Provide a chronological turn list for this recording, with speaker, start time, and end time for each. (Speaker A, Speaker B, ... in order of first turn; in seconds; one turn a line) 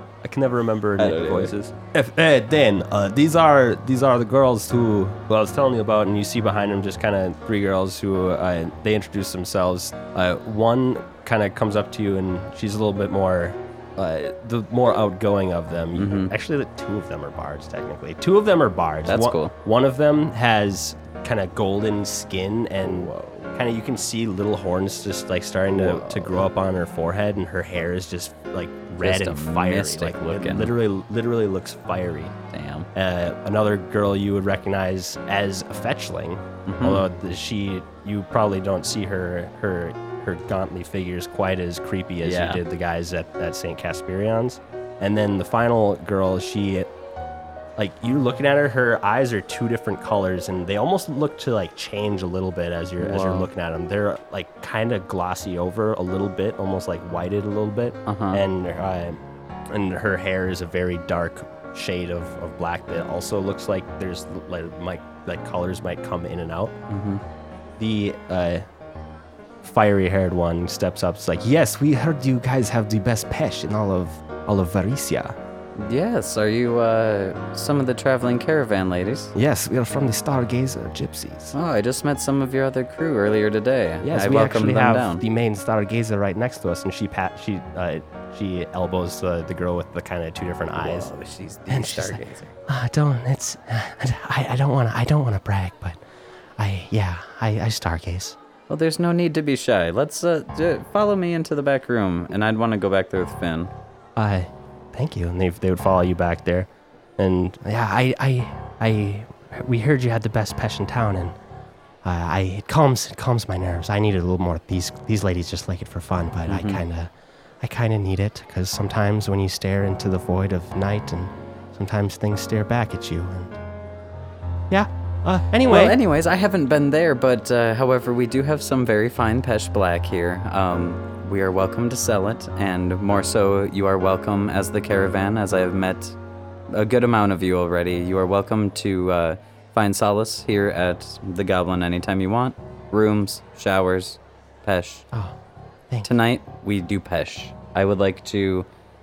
Speaker A: 0.2-32.4
Speaker B: 1.0-1.5
Speaker B: 16.0-16.3
Speaker B: 19.1-19.5
Speaker B: 22.8-23.5
Speaker B: 25.7-26.3
Speaker B: 29.0-30.7
Speaker B: 32.5-32.9
Speaker A: 33.0-46.9
Speaker B: 36.7-37.0
Speaker B: 42.2-42.6
Speaker A: 47.8-66.8
Speaker B: 53.0-53.5
Speaker B: 58.1-58.4
Speaker B: 66.9-67.2
Speaker A: 67.8-68.7
Speaker A: 69.6-75.4
Speaker B: 75.8-79.3
Speaker A: 79.3-81.5
Speaker B: 81.5-85.2
Speaker A: 84.0-91.1
Speaker B: 90.8-92.5
Speaker A: 91.7-96.0
Speaker A: 96.6-98.4
Speaker B: 98.7-103.7
Speaker A: 104.2-111.3
Speaker A: 112.0-123.6
Speaker B: 116.5-116.8
Speaker A: 124.7-126.0
Speaker B: 125.6-136.2
Speaker B: 136.7-145.1
Speaker B: 146.0-148.7